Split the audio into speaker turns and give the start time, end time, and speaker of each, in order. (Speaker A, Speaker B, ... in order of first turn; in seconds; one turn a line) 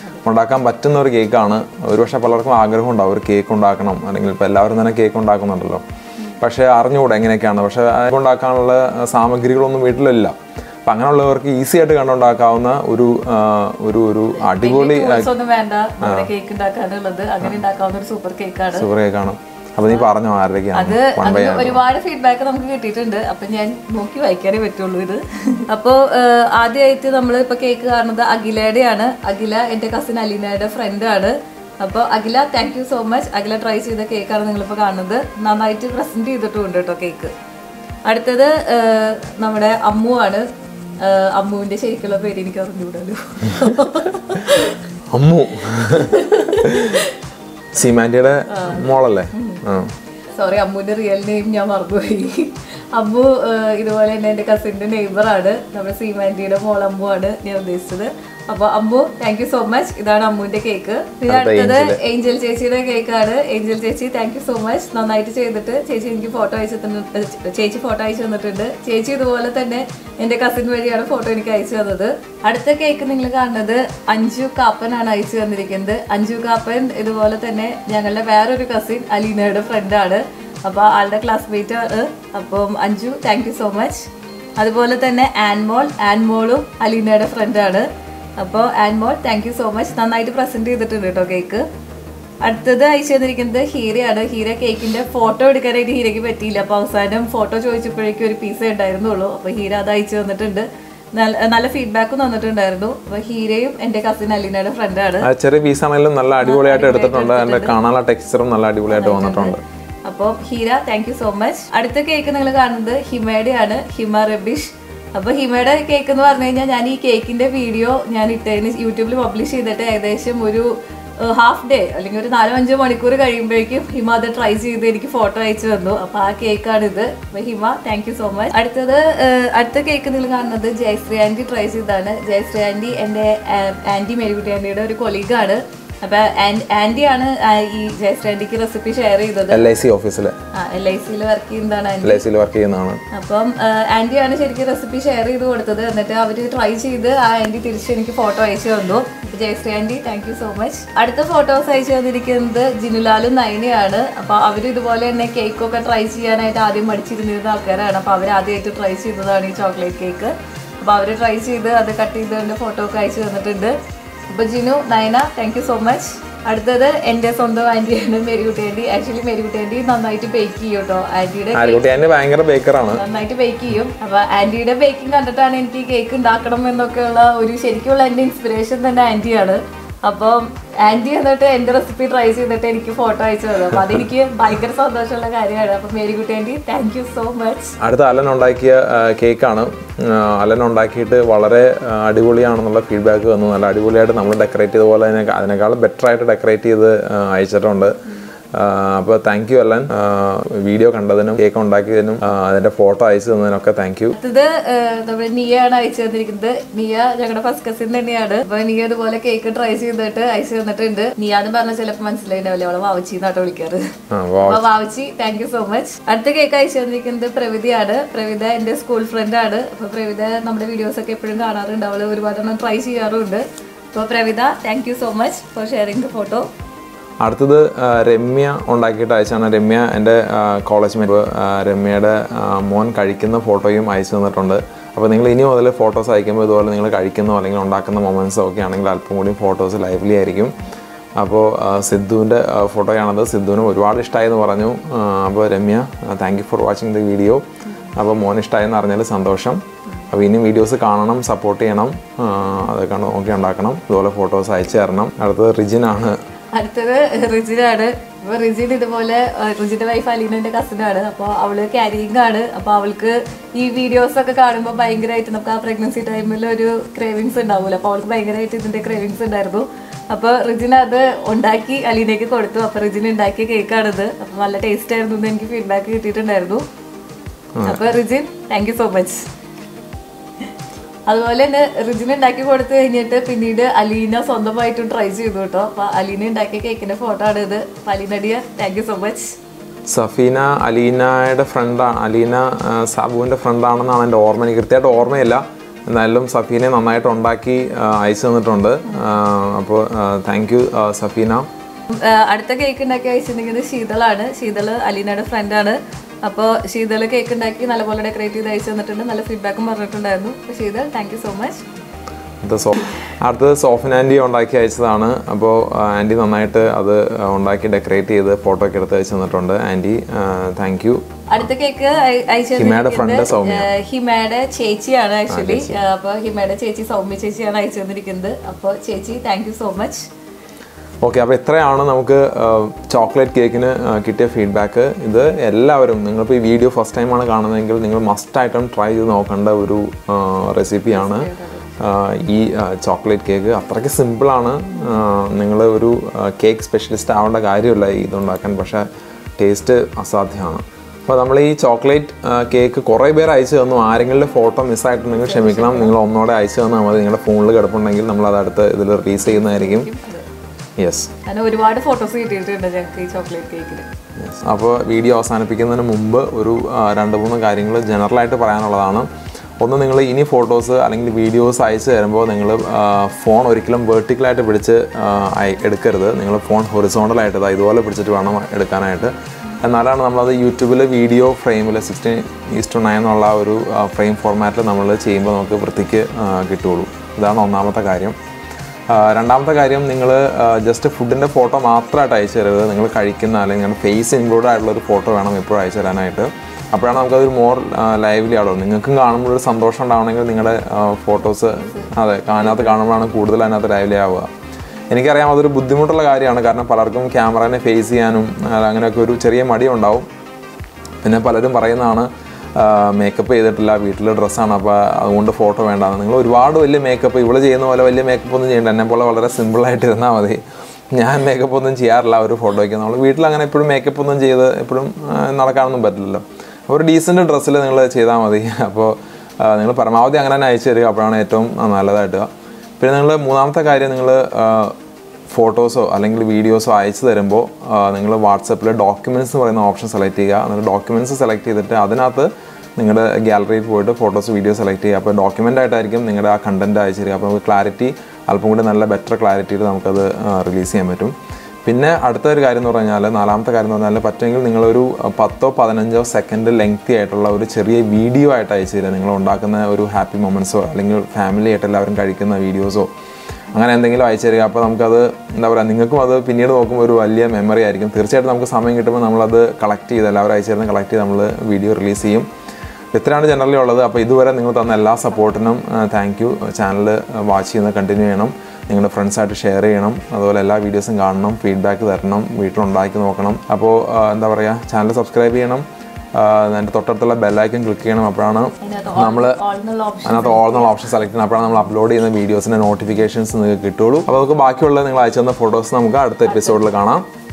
Speaker A: 0.2-5.8
Speaker A: 6.4-15.3
Speaker B: 14.4-18.9
Speaker A: 16.0-16.3
Speaker A: 18.7-21.8
Speaker B: 20.7-37.3
Speaker B: 38.1-40.5
Speaker B: 41.0-44.8
Speaker A: 45.1-47.0
Speaker B: 46.0-47.1
Speaker A: 47.7-49.9
Speaker B: 48.5-49.6
Speaker B: 50.3-87.9
Speaker A: 61.3-62.0
Speaker B: 88.4-91.7
Speaker B: 92.4-105.3
Speaker A: 105.2-109.6
Speaker B: 106.4-107.8
Speaker B: 108.9-139.7
Speaker A: 139.5-140.4
Speaker B: 140.5-142.2
Speaker A: 142.0-143.0
Speaker B: 143.1-163.8
Speaker B: 164.3-172.0
Speaker A: 171.5-173.0
Speaker B: 172.9-187.8
Speaker A: 183.7-184.0
Speaker A: 187.8-198.0
Speaker A: 198.5-204.2
Speaker B: 204.2-213.8
Speaker A: 214.1-214.7
Speaker B: 214.4-226.5
Speaker A: 227.2-240.6
Speaker A: 241.2-256.2
Speaker B: 256.5-276.6
Speaker A: 277.6-277.9
Speaker B: 277.6-279.3
Speaker B: 281.1-289.4
Speaker A: 289.9-301.5
Speaker B: 301.9-311.6
Speaker A: 312.4-321.0
Speaker B: 321.3-330.1
Speaker A: 322.6-323.7
Speaker A: 325.3-325.8
Speaker A: 331.0-341.3
Speaker B: 340.9-341.8
Speaker A: 341.8-348.9
Speaker A: 349.4-359.9
Speaker B: 355.1-355.9
Speaker B: 359.2-360.3
Speaker A: 360.8-361.1
Speaker B: 361.2-363.9
Speaker A: 364.2-369.1
Speaker A: 369.6-388.2
Speaker A: 388.9-404.3
Speaker B: 401.6-402.7
Speaker A: 404.9-410.1
Speaker A: 411.0-420.4
Speaker A: 420.9-432.3
Speaker A: 432.8-434.8
Speaker A: 435.3-451.1
Speaker A: 451.6-462.9
Speaker A: 463.5-472.3
Speaker A: 472.9-489.4
Speaker B: 488.6-490.6
Speaker A: 490.1-497.1
Speaker B: 496.2-496.7